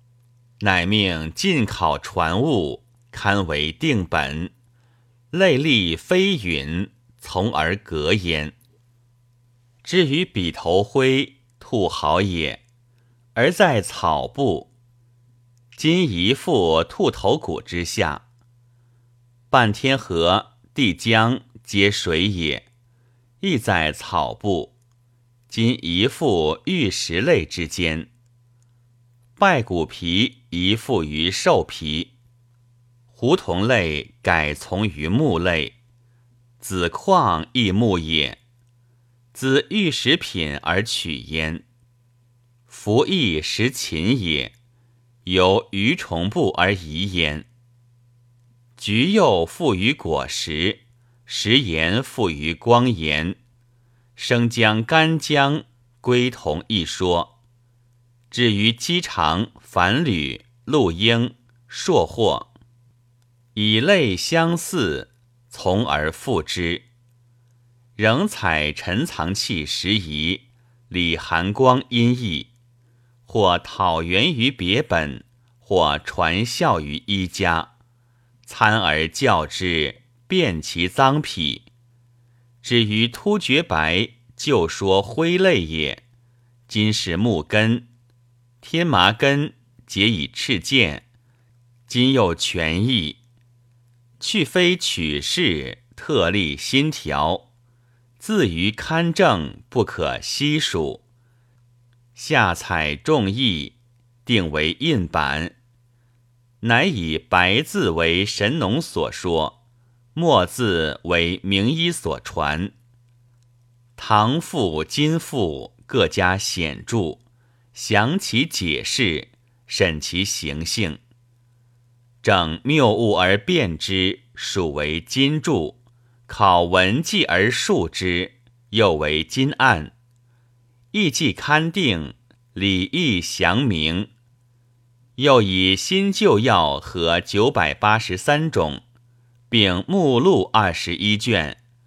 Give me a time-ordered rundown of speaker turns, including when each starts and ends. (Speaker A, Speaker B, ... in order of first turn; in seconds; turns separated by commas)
Speaker A: 0.6-4.5, Speaker A: 5.3-8.6, Speaker A: 9.8-12.6, Speaker A: 13.3-14.7, Speaker A: 15.8-18.2, Speaker A: 19.5-22.7, Speaker A: 23.4-24.7, Speaker A: 25.5-28.1, Speaker A: 29.4-32.1, Speaker A: 33.1-35.8, Speaker A: 36.6-38.4, Speaker A: 39.3-41.6, Speaker A: 42.7-44.5, Speaker A: 45.2-47.5, Speaker A: 48.8-53.4, Speaker A: 54.2-57.3, Speaker A: 58.3-62.5, Speaker A: 63.5-66.9, Speaker A: 68.0-72.5, Speaker A: 73.3-77.7, Speaker A: 78.5-81.7, Speaker A: 82.6-86.0, Speaker A: 86.7-87.9, Speaker A: 88.6-91.0, Speaker A: 91.9-93.2, Speaker A: 94.2-97.5, Speaker A: 98.2-101.0, Speaker A: 102.2-105.5, Speaker A: 106.6-109.6, Speaker A: 110.2-112.7, Speaker A: 114.0-117.2, Speaker A: 117.7-121.0, Speaker A: 122.2-129.9, Speaker A: 130.9-134.1, Speaker A: 135.2-138.8, Speaker A: 139.5-141.6